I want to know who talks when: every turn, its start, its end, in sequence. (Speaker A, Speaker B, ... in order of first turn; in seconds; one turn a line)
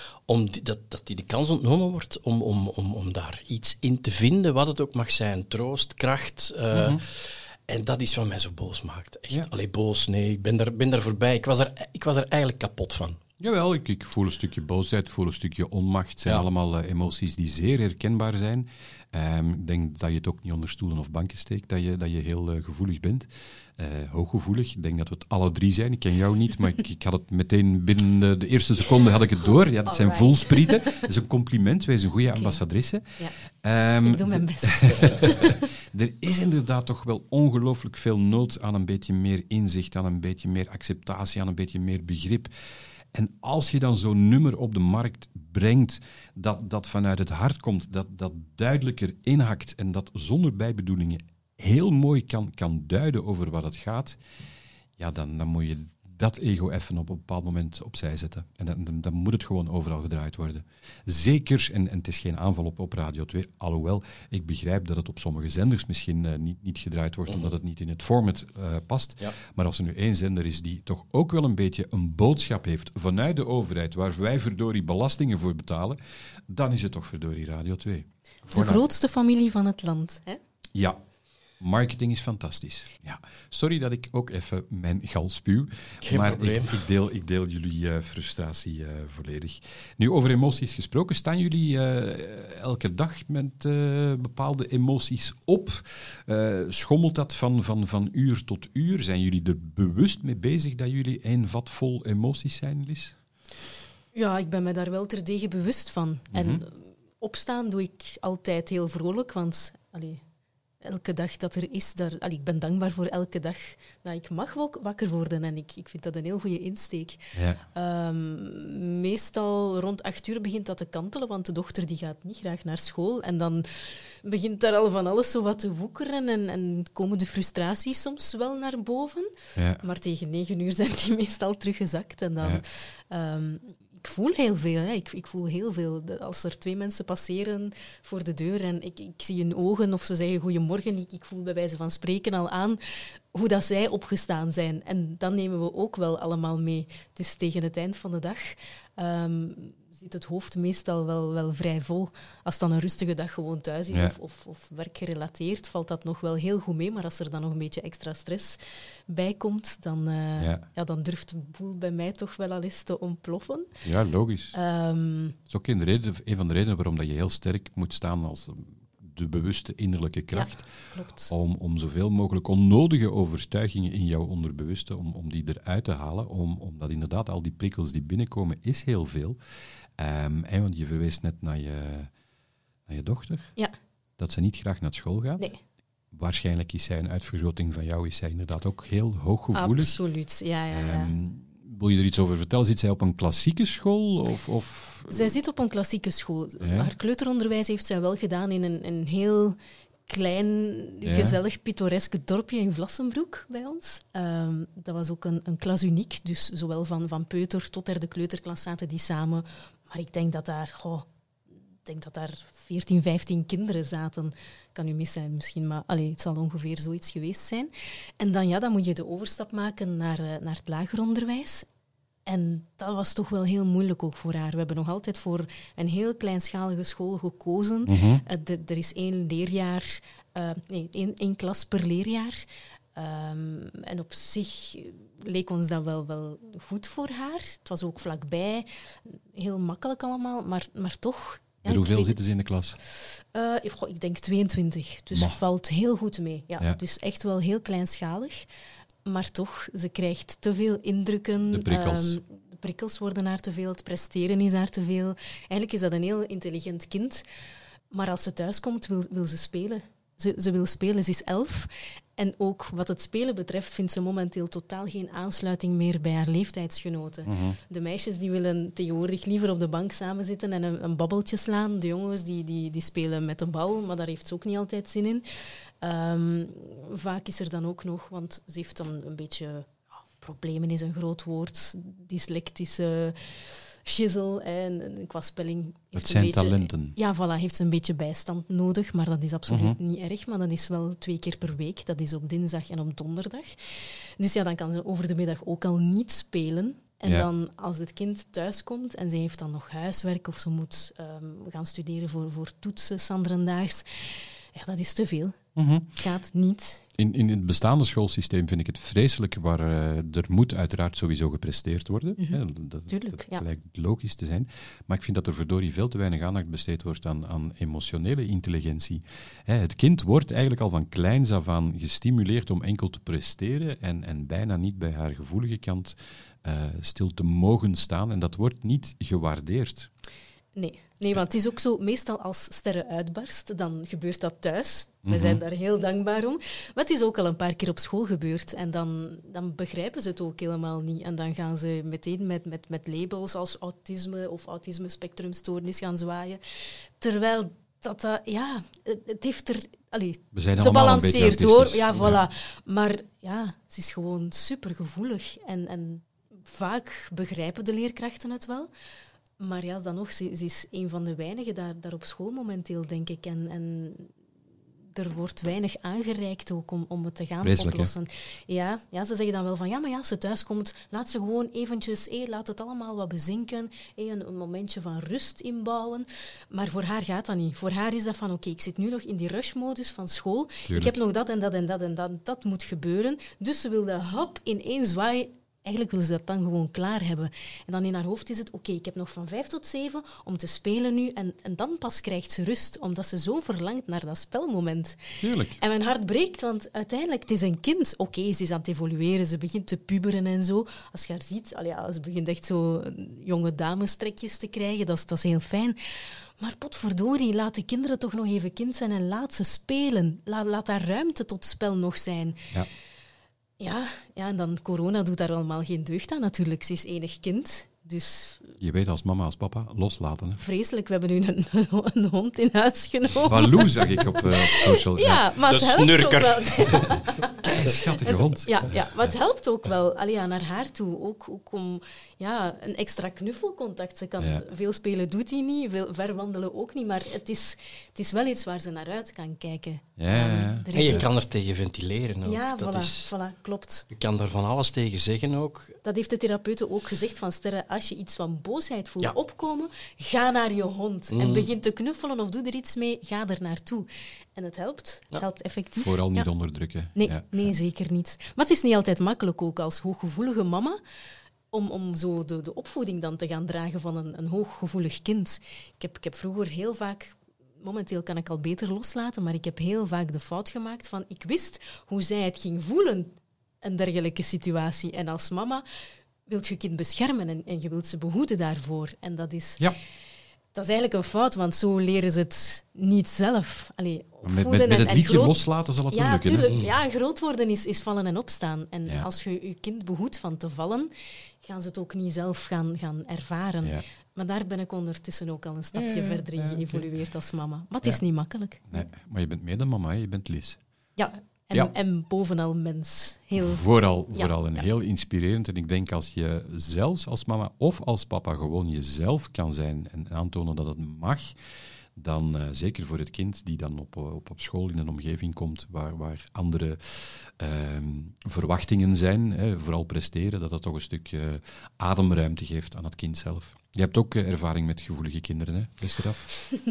Speaker A: 0.3-13.2
Speaker B: 6.7-7.0
Speaker B: 13.4-42.5
Speaker C: 29.9-30.9
Speaker C: 32.3-32.6
Speaker C: 34.0-35.6
Speaker B: 43.1-54.2
Speaker B: 55.0-76.0
Speaker B: 76.5-78.8
Speaker C: 78.5-80.4
Speaker B: 81.6-103.2
Speaker A: 86.0-86.8
Speaker C: 104.1-110.2
Speaker B: 106.3-106.6
Speaker C: 110.8-117.2
Speaker B: 117.3-117.6
Speaker C: 117.7-142.8
Speaker C: 143.3-163.7
Speaker B: 163.8-164.6
Speaker C: 164.5-165.4
Speaker B: 165.5-170.7
Speaker C: 170.3-171.3
Speaker B: 171.3-179.4
Speaker B: 180.0-182.1
Speaker B: 182.9-183.5
Speaker B: 184.2-185.5
Speaker B: 186.1-190.0
Speaker C: 189.5-191.1
Speaker B: 190.7-195.3
Speaker C: 195.1-211.1
Speaker B: 196.6-196.9
Speaker B: 201.0-201.4
Speaker C: 211.8-221.7
Speaker C: 222.3-232.4
Speaker B: 227.9-228.2
Speaker C: 232.9-242.2
Speaker B: 241.7-242.8
Speaker C: 243.0-248.5
Speaker B: 245.1-245.4
Speaker C: 249.1-257.2
Speaker B: 251.5-252.2
Speaker C: 257.9-305.4
Speaker B: 267.3-267.6
Speaker B: 285.9-287.0
Speaker B: 289.5-289.8
Speaker B: 305.6-306.0
Speaker C: 306.0-306.8
Speaker B: 307.0-329.9
Speaker C: 312.2-313.4
Speaker C: 330.6-346.4
Speaker B: 335.1-335.4
Speaker C: 347.0-358.7
Speaker B: 350.3-352.2
Speaker C: 359.4-364.1
Speaker C: 364.9-395.0
Speaker B: 367.4-367.9
Speaker B: 380.7-381.0
Speaker B: 395.2-395.6
Speaker C: 395.6-412.5
Speaker C: 413.6-418.6
Speaker B: 418.6-420.4
Speaker C: 420.4-441.1
Speaker B: 423.2-425.2
Speaker A: 425.5-427.1
Speaker B: 427.4-428.9
Speaker B: 434.2-434.4
Speaker B: 440.0-441.1
Speaker A: 440.7-443.1
Speaker C: 442.2-443.9
Speaker A: 443.9-445.8
Speaker C: 445.8-456.3
Speaker A: 451.1-451.5
Speaker B: 455.8-457.5
Speaker C: 456.9-460.8
Speaker C: 461.5-475.6
Speaker C: 476.3-479.7
Speaker C: 480.5-490.9
Speaker B: 484.2-486.6
Speaker C: 491.4-498.9
Speaker B: 495.7-496.9
Speaker B: 498.7-500.6
Speaker C: 501.0-504.6
Speaker B: 503.4-511.4
Speaker B: 512.0-526.3